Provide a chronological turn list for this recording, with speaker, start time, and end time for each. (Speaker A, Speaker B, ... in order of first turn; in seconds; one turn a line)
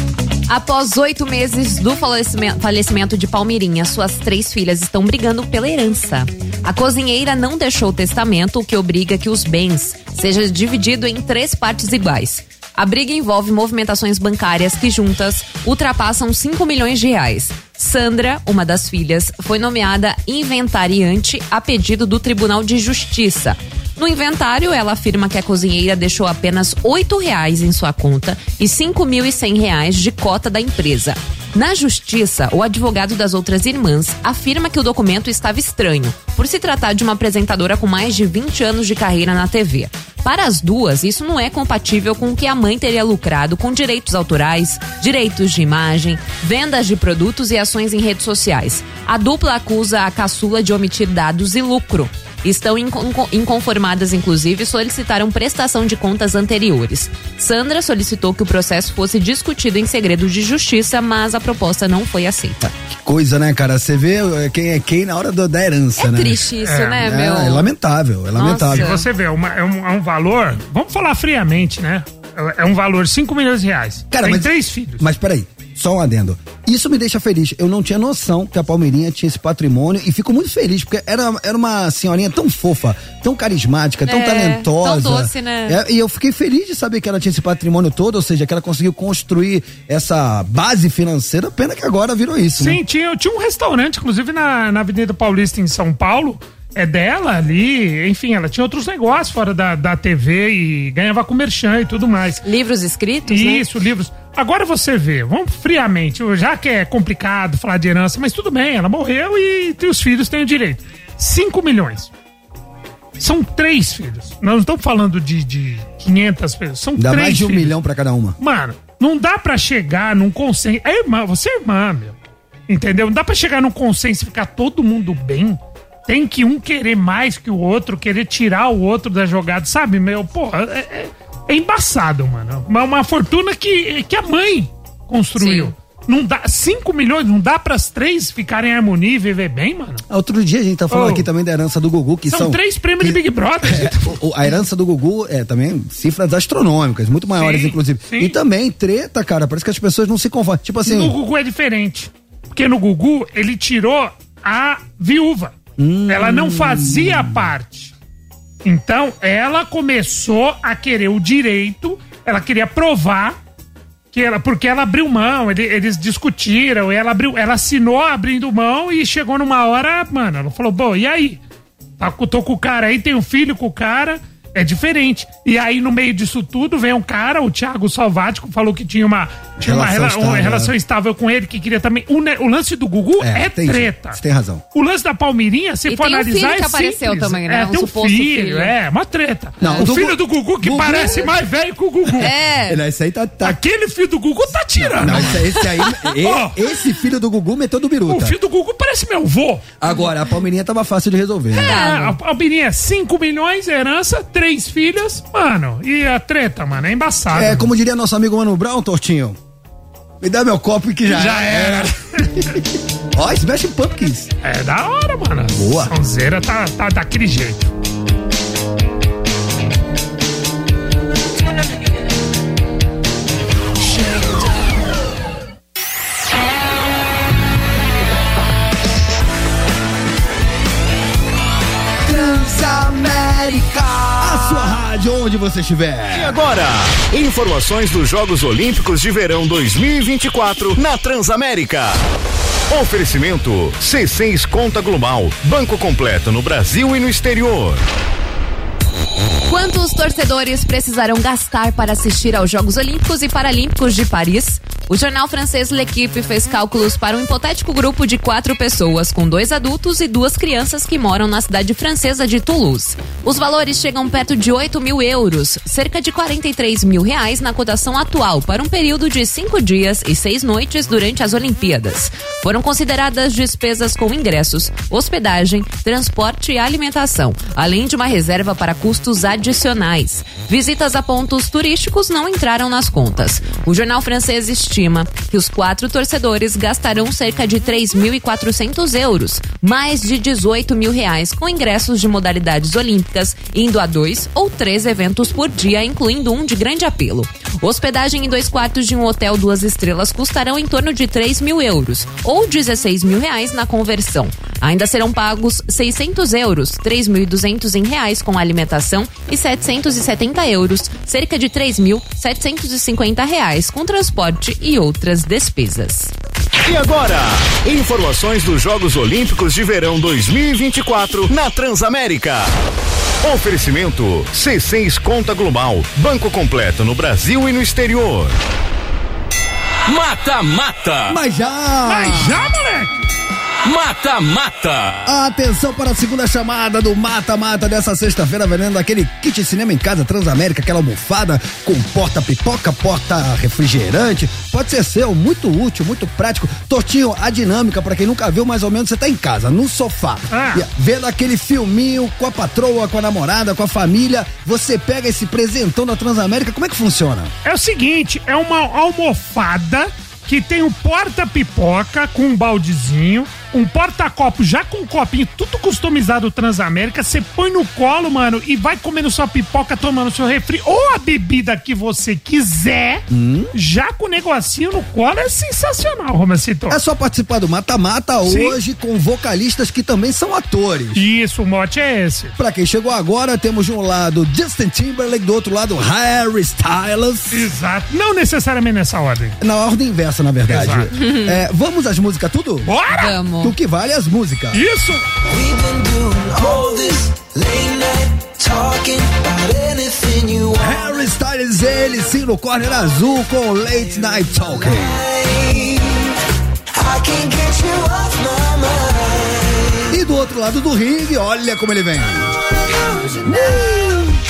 Speaker A: 0.5-62.7
Speaker B: 62.9-66.5
Speaker A: 66.0-67.7
Speaker C: 66.6-67.0
Speaker B: 67.0-68.9
Speaker A: 68.3-69.1
Speaker C: 68.6-75.0
Speaker B: 74.1-92.8
Speaker A: 84.0-85.8
Speaker C: 92.6-102.4
Speaker A: 102.4-103.6
Speaker C: 103.3-112.1
Speaker C: 113.2-117.7
Speaker B: 117.0-118.4
Speaker C: 118.4-122.2
Speaker C: 122.7-140.0
Speaker A: 135.4-135.7
Speaker B: 140.1-151.1
Speaker C: 140.9-141.3
Speaker C: 142.3-144.2
Speaker C: 147.4-148.3
Speaker C: 150.8-155.6
Speaker B: 155.8-157.4
Speaker C: 156.1-157.9
Speaker C: 158.6-163.4
Speaker C: 164.1-171.4
Speaker C: 172.0-184.2
Speaker B: 179.6-180.7
Speaker B: 183.2-184.6
Speaker C: 184.7-192.3
Speaker A: 185.9-188.7
Speaker B: 189.6-191.4
Speaker A: 192.2-192.8
Speaker B: 192.7-193.6
Speaker C: 193.4-195.6
Speaker B: 194.8-198.3
Speaker C: 196.2-196.6
Speaker C: 198.1-199.7
Speaker B: 199.8-201.8
Speaker C: 201.5-207.7
Speaker A: 201.6-202.2
Speaker B: 207.3-209.4
Speaker B: 210.2-212.6
Speaker C: 211.1-212.6
Speaker B: 213.1-214.3
Speaker C: 214.4-217.7
Speaker B: 215.5-215.9
Speaker B: 232.1-236.4
Speaker D: 233.2-233.4
Speaker E: 236.1-242.0
Speaker E: 242.7-247.8
Speaker A: 249.5-316.1
Speaker E: 316.6-322.5
Speaker E: 323.2-328.3
Speaker E: 329.9-331.1
Speaker B: 331.1-332.4
Speaker C: 331.8-332.9
Speaker E: 333.6-335.0
Speaker B: 335.0-357.3
Speaker C: 350.3-350.6
Speaker C: 357.4-376.8
Speaker B: 373.1-373.5
Speaker B: 376.7-381.0
Speaker C: 378.2-378.6
Speaker C: 380.9-382.4
Speaker B: 382.4-387.5
Speaker C: 387.3-389.4
Speaker B: 389.4-392.7
Speaker C: 390.5-390.9
Speaker A: 390.9-391.4
Speaker C: 392.6-393.2
Speaker A: 392.9-393.5
Speaker B: 393.4-394.6
Speaker C: 394.5-395.0
Speaker D: 395.3-400.9
Speaker B: 400.6-405.0
Speaker D: 404.6-406.1
Speaker D: 406.7-409.9
Speaker B: 409.9-412.3
Speaker D: 412.3-413.7
Speaker B: 413.2-414.1